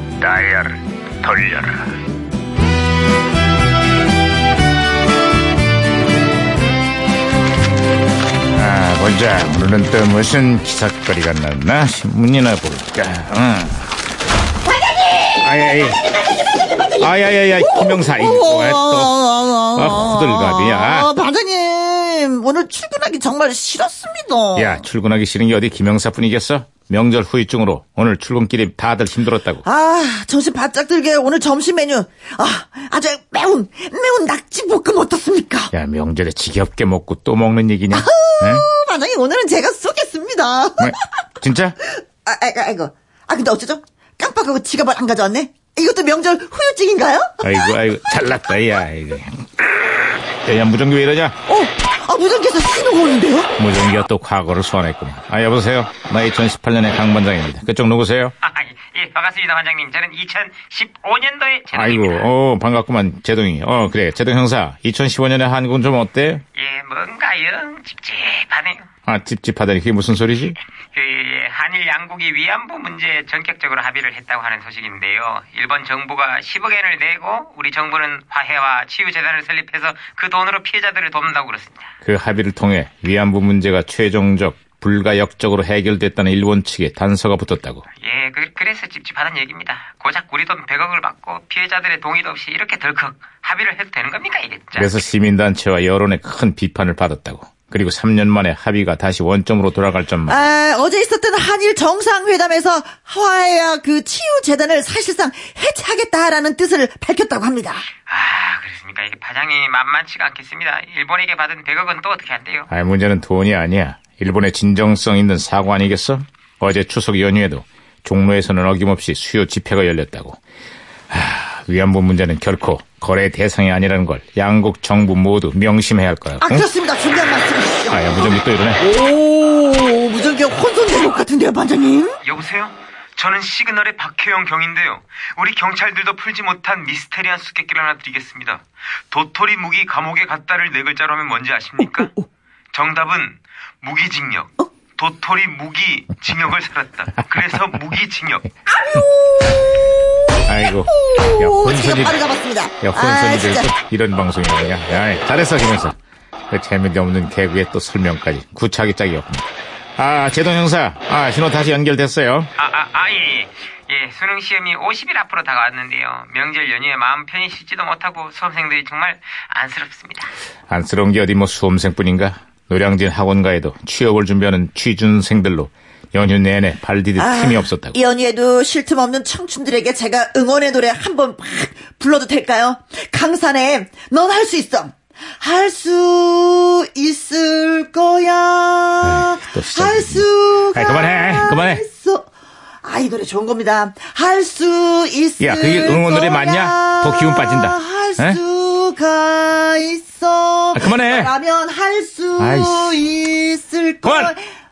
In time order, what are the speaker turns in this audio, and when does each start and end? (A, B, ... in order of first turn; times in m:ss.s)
0:00.2-0:02.0 A
0:08.5-0:13.9 A
0:14.8-0:15.5 B
0:15.4-0:16.0 A
0:16.8-0:24.8 B
0:17.0-0:19.2 A
0:19.8-0:21.1 A
0:24.6-0:29.6 A
0:29.6-0:35.7 B
0:35.7-0:38.7 A
0:37.9-0:41.0 B
0:40.8-0:41.8 A
0:41.8-0:47.7 B
0:47.4-0:49.7 A
0:50.4-0:51.4 A
0:51.5-0:53.5 B
0:53.6-0:58.3 A
0:58.4-1:02.3 C
1:01.7-1:06.4 A
1:06.6-1:08.9 C
1:09.1-1:10.6 A
1:10.9-1:21.9 C
1:22.0-1:27.8 A
1:28.0-1:35.0 C
1:34.8-1:40.5 A
1:40.3-1:47.9 B
1:48.0-1:52.7 C
1:52.7-2:00.4 A
2:01.1-2:06.7 A
2:06.4-2:12.2 B
2:07.9-2:08.8 A
2:12.2-2:22.2 C
2:22.7-2:28.5 C
2:28.7-2:29.3 B
2:30.5-2:32.2 A
2:30.9-2:33.7 B
2:32.8-2:36.0 A
2:36.5-2:39.4 A
2:40.0-2:42.5 A
2:42.6-2:50.3 C
2:50.7-2:58.0 A
2:57.2-3:12.3 B
3:09.0-3:11.8 A
3:12.8-3:24.5 B
3:15.4-3:18.4 A
3:20.7-3:21.3 A
3:22.4-3:23.0 A
3:24.0-3:24.3 A